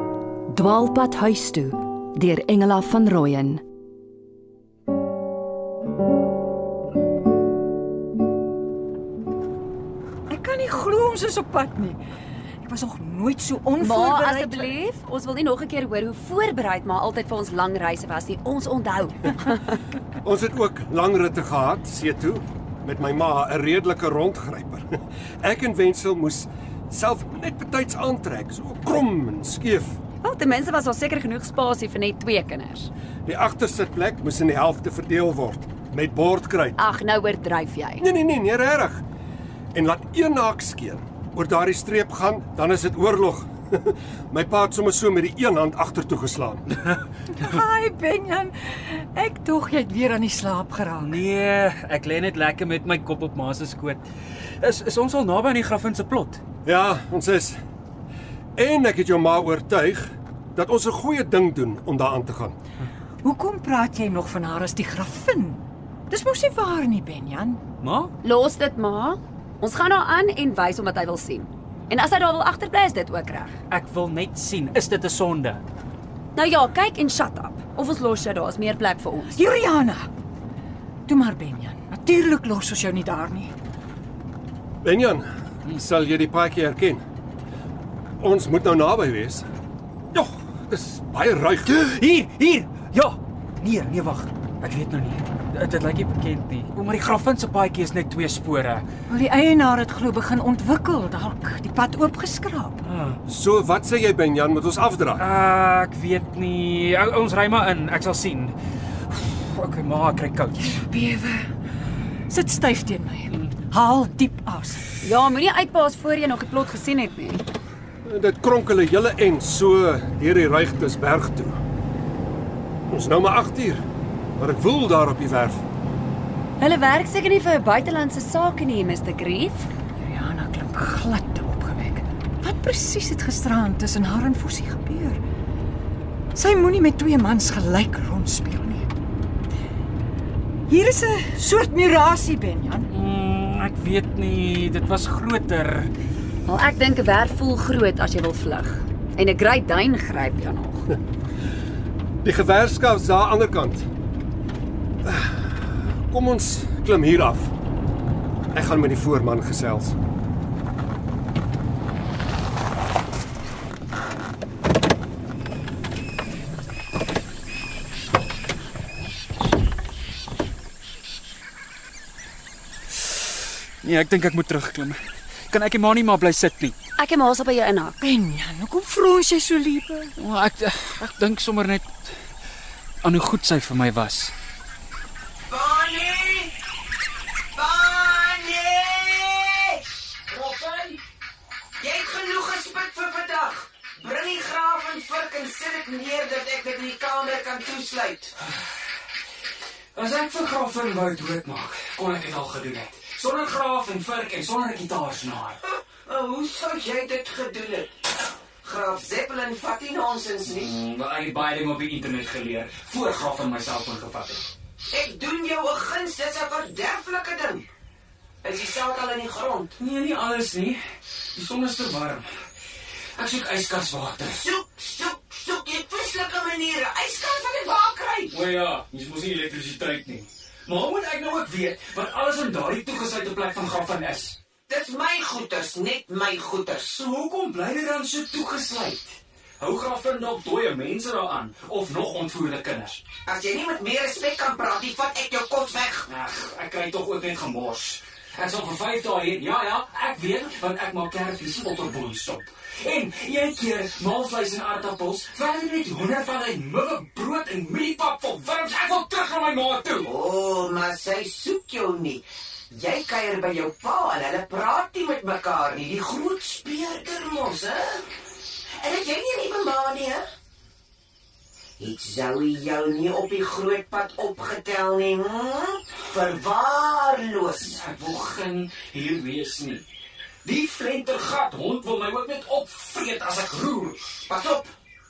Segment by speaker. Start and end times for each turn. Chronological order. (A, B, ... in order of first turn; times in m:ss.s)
0:00.5-0:03.6 A
0:10.3-0:12.0 B
0:12.6-0:14.7 B
0:13.8-0:19.8 C
0:20.2-0:30.0 D
0:30.2-0:32.9 C
0:33.2-0:36.8 D
0:36.8-0:38.0 C
0:38.0-0:39.0 D
0:39.7-0:46.6 D
0:47.3-0:51.2 B
0:51.0-0:54.0 E
0:54.6-0:56.4 E
0:56.6-0:57.6 D
0:58.6-1:02.6 D
1:03.2-1:07.6 B
1:07.8-1:08.1 E
1:08.2-1:13.6 C
1:13.7-1:15.6 E
1:16.4-1:19.4 C
1:19.3-1:20.1 B
1:21.1-1:23.5 B
1:24.8-1:27.0 D
1:28.2-1:29.5 D
1:30.1-1:31.8 D
1:31.7-1:38.8 E
1:39.1-1:42.8 B
1:42.9-1:43.2 E
1:43.3-1:45.2 D
1:45.2-1:48.5 E
1:49.1-1:50.8 E
1:50.6-1:51.5 B
1:52.3-1:54.9 B
1:55.0-1:57.4 C
1:58.0-2:01.6 D
2:02.9-2:03.8 D
2:04.4-2:05.6 D
2:06.6-2:09.7 C
2:10.0-2:15.2 B
2:16.3-2:18.9 B
2:20.7-2:22.9 B
2:22.9-2:25.9 E
2:26.5-2:30.9 C
2:32.2-2:33.9 D
2:35.0-2:37.5 D
2:38.5-2:40.0 D
2:53.8-2:55.0 E
2:55.5-2:56.8 E
2:57.0-2:58.0 C
2:58.0-3:00.1 B
3:00.2-3:02.1 E
3:03.0-3:04.3 E
3:05.5-3:06.5 F
3:07.6-3:09.8 F
3:10.3-3:11.0 E
3:11.8-3:18.3 F
3:20.0-3:25.6 E
3:26.1-3:27.9 F
3:28.6-3:30.7 F
3:30.5-3:34.4 E
3:34.9-3:37.7 F
3:38.4-3:39.7 F
3:39.8-3:40.8 E
3:41.3-3:42.3 E
3:43.2-3:44.5 E
3:44.3-3:48.3 F
3:48.3-3:54.4 E
3:54.7-3:56.9 F
3:56.8-4:03.0 E
4:03.3-4:06.0 F
4:06.1-4:20.1 E
4:20.0-4:28.0 F
4:28.8-4:30.3 F
4:31.8-4:37.8 F
4:37.6-4:39.8 E
4:40.4-4:44.2 E
4:44.3-4:44.7 F